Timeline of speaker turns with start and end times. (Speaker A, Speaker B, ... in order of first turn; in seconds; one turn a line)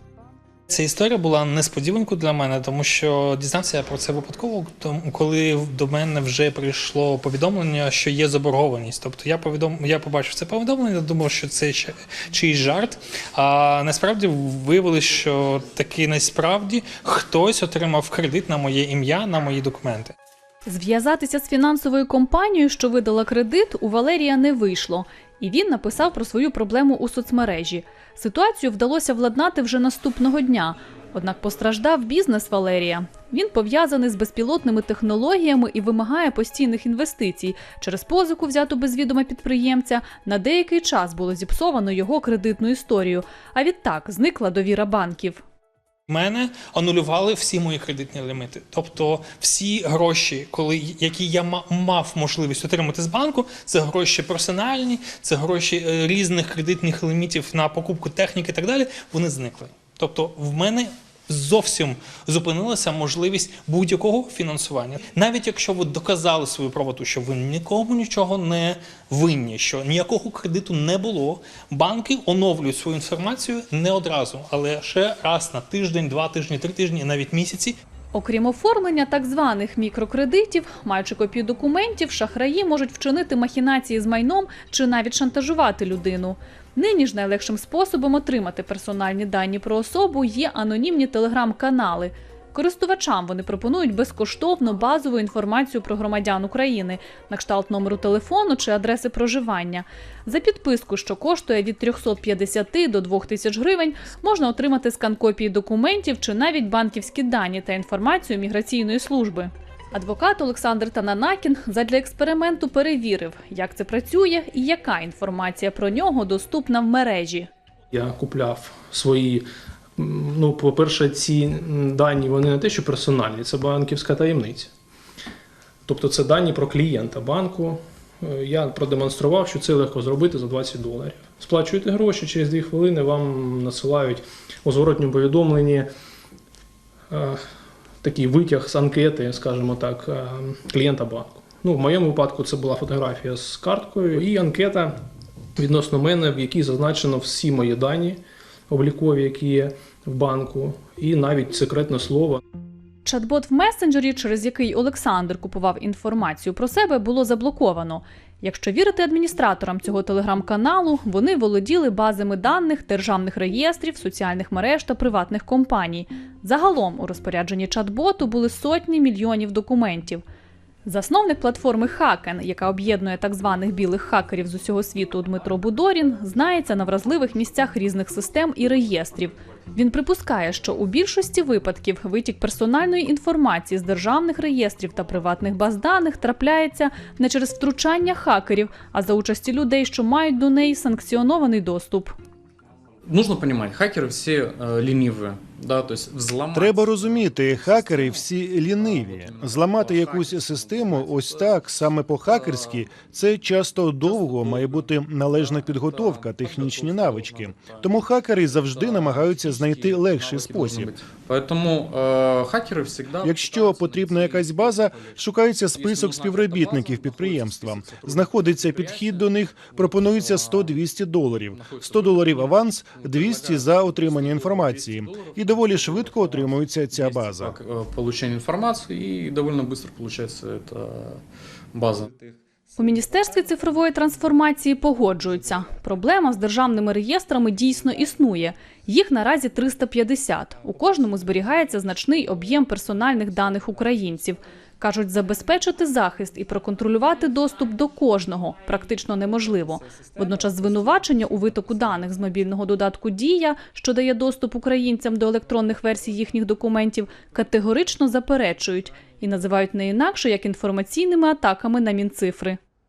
Speaker A: 0.7-20.1
Speaker B: 20.7-45.4
Speaker A: 46.1-77.8
Speaker B: 78.1-117.5
Speaker C: 117.9-119.5
Speaker C: 120.0-124.7
Speaker C: 125.9-135.9
Speaker C: 137.1-137.4
Speaker C: 138.0-144.9
Speaker C: 145.6-152.4
Speaker B: 153.1-170.2
Speaker B: 170.9-192.2
Speaker D: 193.0-202.9
Speaker E: 196.5-210.9
Speaker D: 204.0-220.9
Speaker E: 213.2-227.6
Speaker D: 221.5-231.2
Speaker D: 231.7-232.1
Speaker B: 232.8-262.6